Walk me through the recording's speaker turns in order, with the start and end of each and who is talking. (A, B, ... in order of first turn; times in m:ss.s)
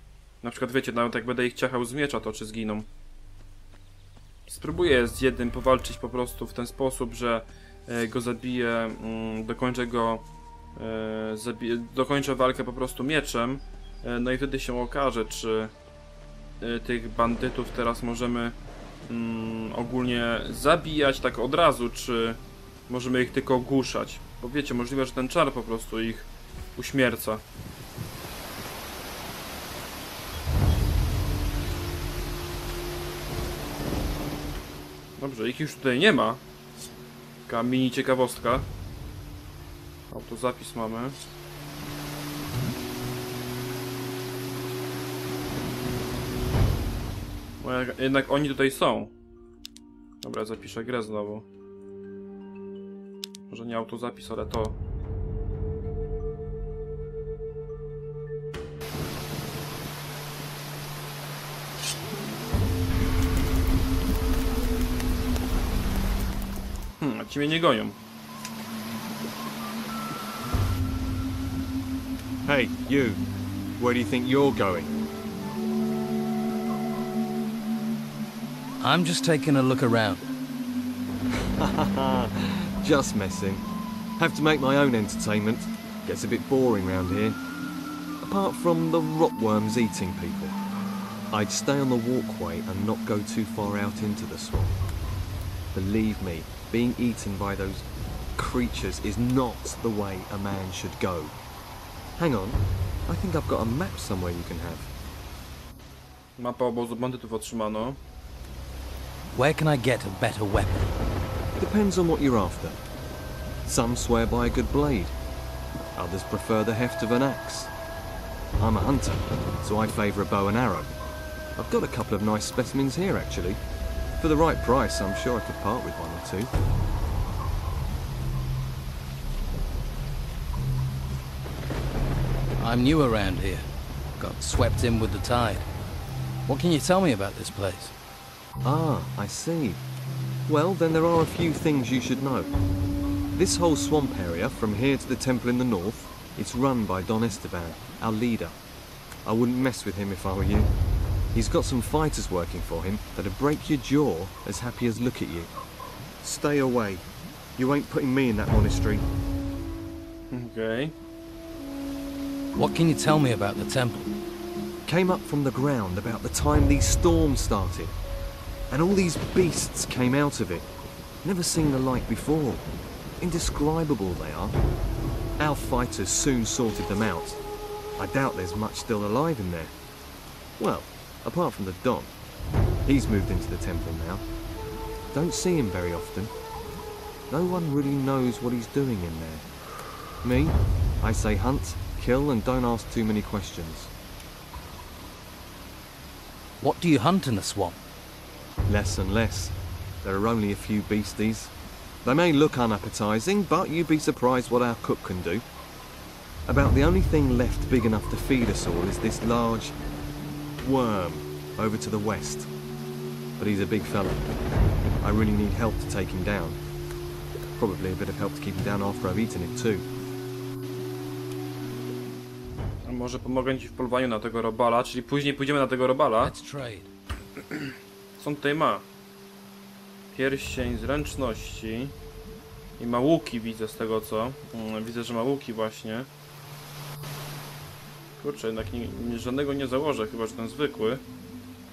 0:00.4-0:02.9 A
0:04.5-0:15.7 A
0:16.6-0:27.4 A
0:35.2-0:36.4 A
0:37.5-0:38.7 A
0:40.1-0:41.2 A
0:47.6-0:49.1 A
0:50.2-0:51.5 A
0:53.5-0:54.8 A
1:07.0-1:08.0 A
1:12.4-1:13.2 B
1:13.8-1:15.0 B
1:18.8-1:20.3 C
1:21.3-1:23.6 B
1:24.2-1:27.4 B
1:28.2-1:30.6 B
1:31.3-1:34.8 B
1:35.7-1:41.4 B
1:42.2-1:44.9 B
1:46.4-1:48.0 A
1:49.3-1:50.9 C
1:51.6-1:52.8 B
1:53.6-1:55.1 B
1:56.0-1:57.7 B
1:58.6-2:00.9 B
2:01.6-2:03.6 B
2:04.2-2:06.5 B
2:12.6-2:13.6 C
2:14.2-2:15.7 C
2:16.5-2:18.0 C
2:18.6-2:19.8 B
2:20.5-2:22.5 B
2:23.3-2:28.6 B
2:29.2-2:30.7 B
2:31.3-2:35.5 B
2:36.2-2:39.1 B
2:40.3-2:41.0 A
2:42.5-2:44.1 C
2:44.9-2:48.0 B
2:48.7-2:50.7 B
2:51.2-2:52.6 B
2:53.2-2:54.6 B
2:55.4-2:57.4 B
2:58.0-2:59.7 B
3:00.6-3:02.1 B
3:02.9-3:04.3 B
3:05.1-3:06.3 B
3:07.3-3:09.5 B
3:10.2-3:13.9 B
3:16.6-3:17.8 C
3:18.7-3:21.5 B
3:22.0-3:25.4 B
3:26.5-3:29.8 B
3:30.6-3:32.5 B
3:33.4-3:34.3 B
3:35.0-3:36.6 B
3:37.6-3:39.8 B
3:42.8-3:46.3 A
3:46.2-3:46.9 C
3:48.2-3:48.8 A
3:50.1-3:52.0 A
3:52.8-3:56.1 A
3:58.2-4:01.0 A